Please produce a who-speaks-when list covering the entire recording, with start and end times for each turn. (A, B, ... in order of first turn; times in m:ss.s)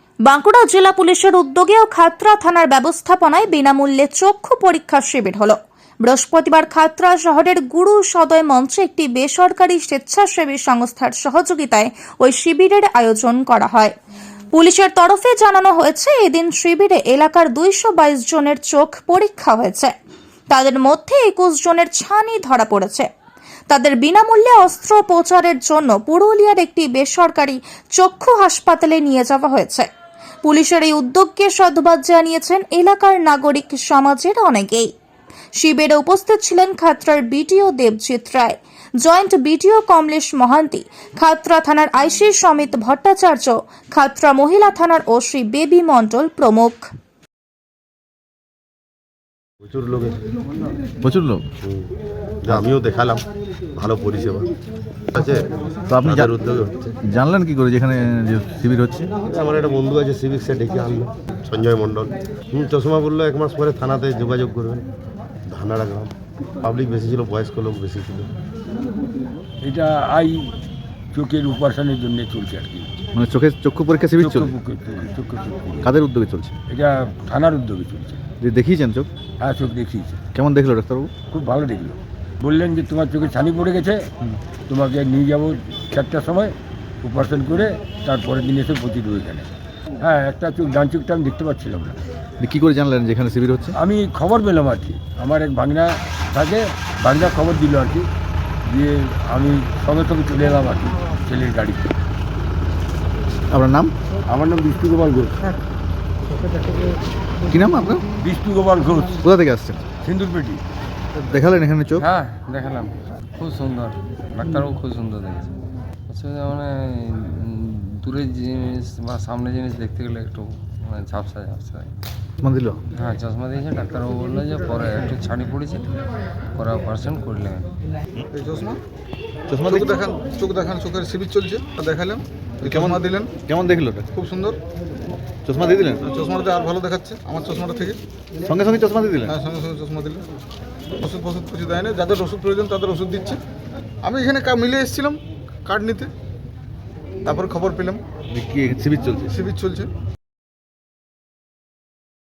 0:00.2-0:13.9 A
0:14.5-0:19.9 A
0:20.5-0:23.1 A
0:23.7-0:29.9 A
0:30.4-0:34.9 A
0:35.5-0:46.9 A
0:49.6-0:50.2 B
0:51.0-0:51.4 C
0:51.6-0:51.9 B
0:52.4-0:53.2 B
0:53.7-0:54.5 B
0:55.1-0:55.5 B
0:55.9-0:56.3 C
0:56.0-0:56.9 B
0:57.0-0:59.1 C
0:59.3-1:04.8 B
1:05.5-1:08.3 B
1:09.6-1:10.5 D
1:11.1-1:12.9 D
1:13.1-1:14.5 C
1:14.2-1:15.9 D
1:15.8-1:16.5 C
1:16.7-1:18.2 D
1:18.4-1:19.1 C
1:19.4-1:20.2 D
1:20.3-1:21.1 C
1:21.3-1:24.0 D
1:24.7-1:29.5 D
1:30.0-1:32.0 D
1:32.4-1:33.8 C
1:33.8-1:38.1 D
1:38.6-1:41.9 D
1:43.5-1:43.9 C
1:44.2-1:45.3 D
1:47.5-1:48.0 C
1:48.2-1:49.2 D
1:49.2-1:49.8 C
1:50.0-1:50.6 D
1:51.1-1:52.0 C
1:52.0-1:55.5 E
1:56.1-2:01.9 E
2:02.4-2:02.8 C
2:02.9-2:06.0 E
2:06.5-2:07.7 E
2:08.3-2:08.8 F
2:09.5-2:10.0 C
2:09.7-2:13.3 F
2:12.6-2:14.1 C
2:14.1-2:14.6 F
2:15.4-2:16.1 C
2:16.1-2:18.0 F
2:18.4-2:19.3 C
2:19.3-2:20.2 F
2:21.0-2:23.4 F
2:24.0-2:26.1 F
2:27.2-2:28.0 F
2:28.3-2:29.4 C
2:29.3-2:29.9 F